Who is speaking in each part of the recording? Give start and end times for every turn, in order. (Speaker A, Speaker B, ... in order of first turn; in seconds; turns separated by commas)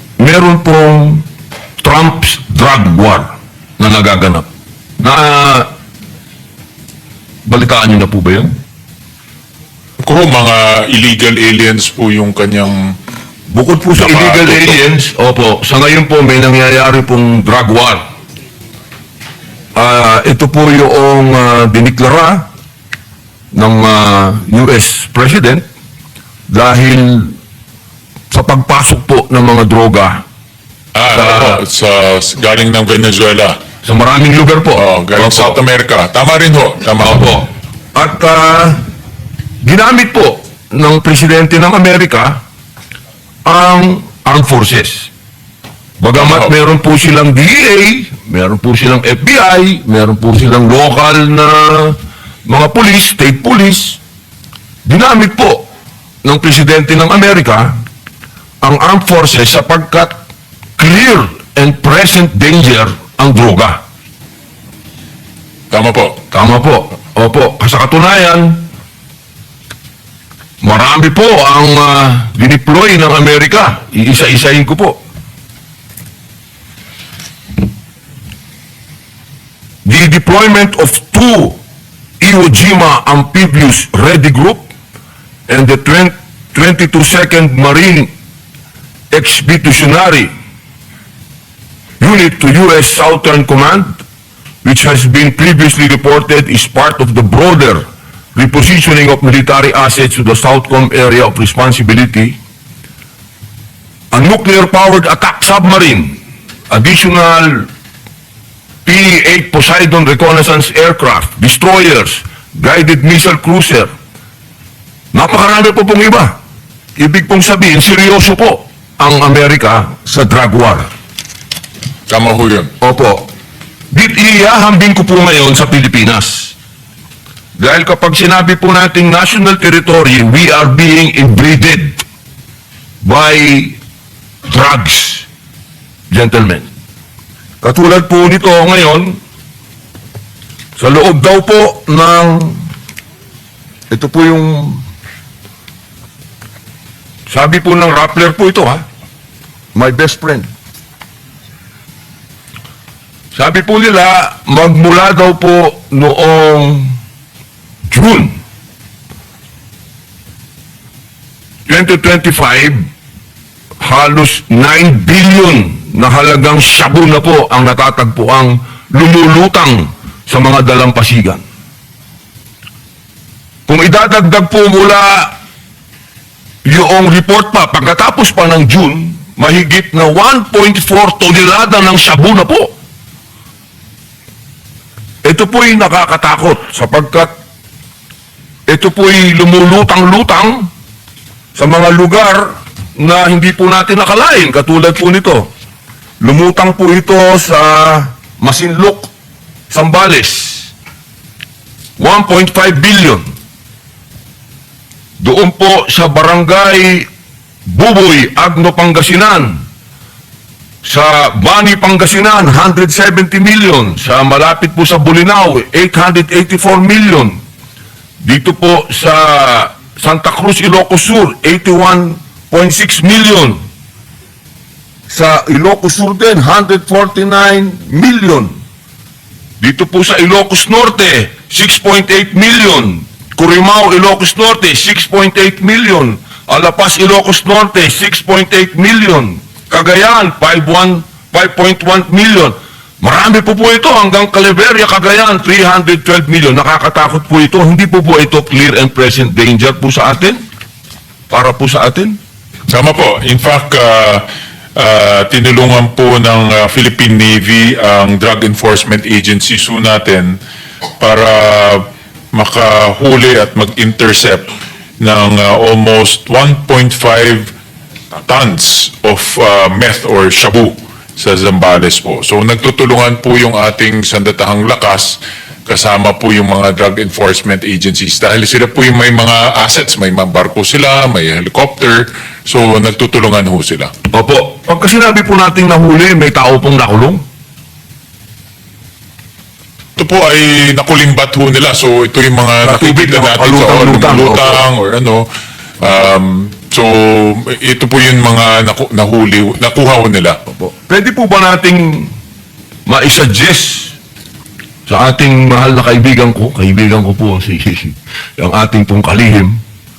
Speaker A: 0.2-1.3, Speaker A: 1.8-4.5, Speaker A: 5.0-5.7, Speaker A: 7.5-8.6, Speaker B: 10.0-12.9, Speaker A: 13.5-18.0, Speaker B: 14.0-14.8, Speaker A: 19.8-22.5, Speaker A: 23.5-25.6, Speaker A: 26.5-27.4, Speaker A: 28.3-30.2, Speaker B: 30.9-33.6, Speaker A: 31.1-31.6, Speaker A: 33.8-35.6, Speaker B: 34.8-37.4, Speaker A: 37.0-38.8, Speaker A: 39.6-42.4, Speaker A: 43.5-45.1, Speaker A: 46.0-54.0, Speaker B: 46.2-46.5, Speaker A: 54.9-55.7, Speaker A: 56.2-57.8, Speaker A: 58.6-60.1, Speaker A: 60.8-63.8, Speaker B: 65.7-66.2, Speaker A: 66.3-68.7, Speaker A: 70.6-75.0, Speaker A: 79.8-81.6, Speaker A: 82.2-84.7, Speaker A: 85.5-88.1, Speaker A: 89.1-90.3, Speaker A: 92.0-94.0, Speaker A: 94.6-102.4, Speaker A: 104.1-106.2, Speaker A: 106.7-107.7, Speaker A: 108.8-113.9, Speaker A: 115.1-116.4, Speaker A: 117.0-120.9, Speaker B: 122.1-122.7, Speaker A: 122.8-123.3, Speaker A: 123.9-126.5, Speaker A: 127.6-132.0, Speaker A: 133.0-133.8, Speaker A: 134.5-135.3, Speaker A: 136.1-136.7, Speaker A: 137.6-139.2, Speaker A: 140.8-142.7, Speaker A: 143.9-144.8, Speaker A: 147.3-148.8, Speaker A: 149.8-150.5, Speaker A: 153.3-157.0, Speaker A: 157.9-158.3, Speaker A: 161.7-162.9, Speaker A: 163.8-171.4, Speaker A: 173.7-175.3, Speaker A: 176.7-182.7, Speaker A: 185.2-187.3, Speaker A: 188.7-190.7, Speaker A: 191.6-195.5, Speaker A: 196.2-199.1, Speaker A: 199.7-200.7, Speaker A: 202.0-203.3, Speaker A: 205.2-207.1, Speaker A: 207.7-209.6, Speaker A: 210.8-217.4, Speaker A: 218.2-223.6, Speaker A: 225.1-228.6, Speaker A: 229.6-250.4, Speaker A: 251.3-252.2, Speaker B: 252.7-254.2, Speaker B: 254.8-260.4, Speaker B: 261.0-264.5, Speaker B: 265.0-267.5, Speaker B: 268.2-283.9, Speaker A: 284.1-287.2, Speaker B: 290.0-295.3, Speaker A: 292.6-294.6, Speaker B: 295.8-300.4, Speaker A: 300.5-302.1, Speaker A: 302.9-303.9, Speaker A: 304.9-309.6